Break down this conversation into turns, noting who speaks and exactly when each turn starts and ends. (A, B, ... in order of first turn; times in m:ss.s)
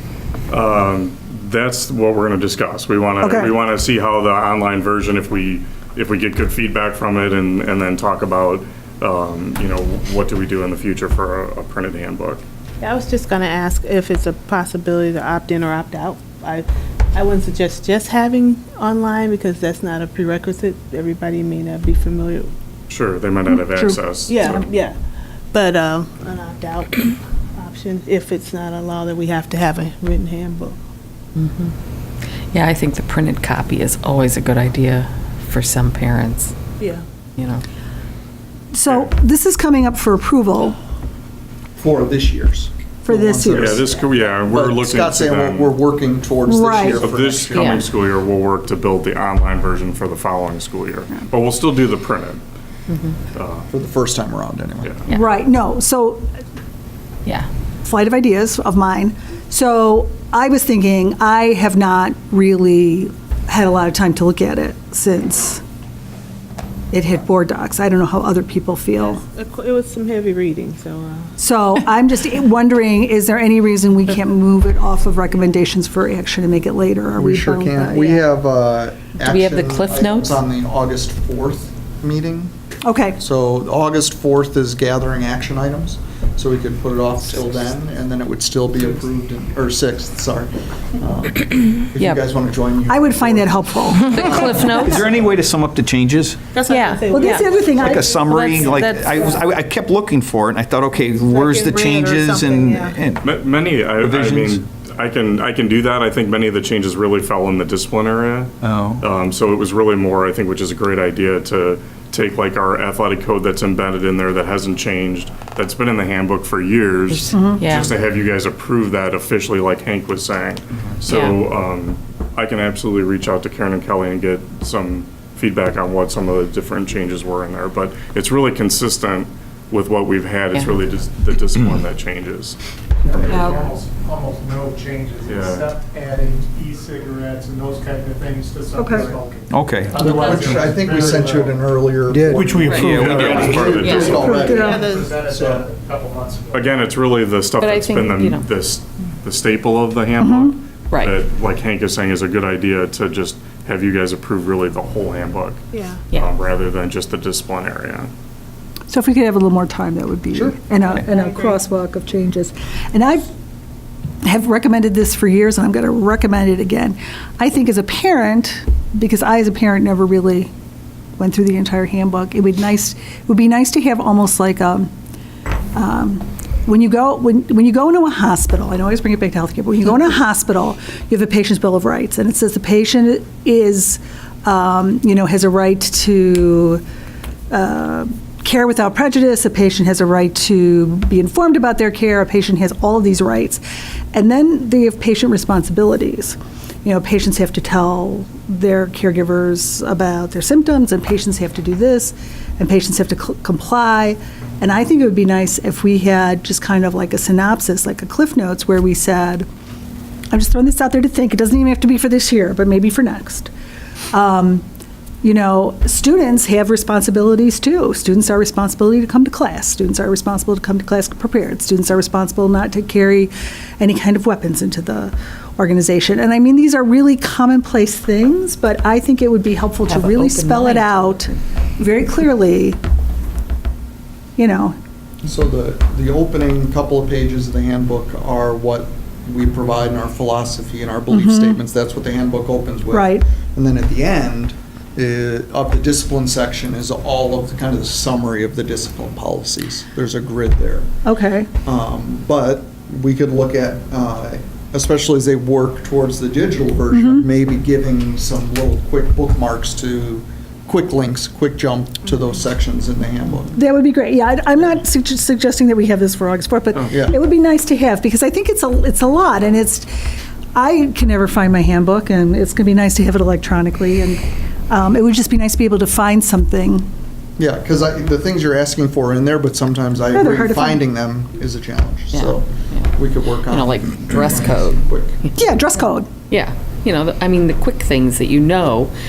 0:00.5-0:12.4 A
0:03.2-0:03.5 B
0:12.8-0:22.5 C
0:22.9-0:24.6 A
0:23.5-0:24.0 B
0:24.3-0:25.0 C
0:25.5-0:30.8 C
0:31.3-0:31.7 D
0:32.5-0:36.5 D
0:36.8-0:37.0 C
0:37.4-0:37.6 D
0:38.7-0:40.8 B
0:38.8-0:39.1 A
0:41.8-0:47.8 E
0:43.0-0:43.9 B
0:43.5-0:45.7 A
0:46.4-0:47.0 B
0:46.8-0:52.4 A
0:47.5-0:47.9 D
0:52.9-0:53.2 D
0:53.3-0:53.7 A
0:53.7-0:54.9 E
0:55.1-0:55.3 D
0:55.1-0:56.2 B
0:57.8-1:05.6 B
1:06.9-1:09.2 B
1:09.0-1:11.3 C
1:11.4-1:18.2 B
1:17.1-1:22.5 E
1:19.2-1:20.4 D
1:22.8-1:23.2 B
1:23.2-1:35.3 E
1:32.9-1:35.0 B
1:33.9-1:35.0 D
1:34.8-1:36.6 F
1:36.5-1:37.9 C
1:36.6-1:37.6 D
1:37.1-1:39.4 B
1:37.6-1:44.6 F
1:41.2-1:43.0 C
1:43.2-2:12.6 A
1:48.6-1:49.0 F
1:57.1-1:58.0 D
1:57.3-1:57.6 B
2:01.1-2:01.4 D
2:10.5-2:10.8 D
2:13.0-2:21.7 G
2:13.1-2:13.4 A
2:13.2-2:13.7 D
2:15.2-2:15.7 A
2:18.7-2:19.2 B
2:19.5-2:20.7 F
2:20.0-2:25.6 E
2:22.1-2:23.9 F
2:22.3-2:26.8 G
2:22.6-2:23.0 D
2:22.8-2:24.5 A
2:23.6-2:24.2 D
2:24.2-2:24.9 B
2:24.5-2:25.2 C
2:26.5-2:38.1 A
2:27.6-2:28.5 D
2:30.2-2:30.5 B
2:35.7-2:36.0 C
2:38.9-2:43.2 B
2:40.8-2:41.6 C
2:44.2-2:50.5 B
2:51.2-2:54.9 B
2:55.7-3:06.8 B
3:07.5-3:13.6 B
3:14.1-3:29.4 B
3:30.3-3:33.5 B
3:34.1-3:34.6 B
3:35.2-3:52.8 B
3:49.8-3:51.4 D
3:54.4-3:54.8 B
3:55.2-4:10.9 E
4:01.1-4:01.6 B
4:02.9-4:03.2 B
4:11.0-4:11.5 B
4:11.6-4:23.6 E
4:16.9-4:17.2 B
4:23.5-4:29.9 B
4:26.9-4:27.2 E
4:30.5-4:36.9 B
4:37.4-4:45.2 E
4:40.1-4:40.8 B
4:42.1-4:42.9 D
4:43.4-4:48.9 D
4:45.3-4:46.1 B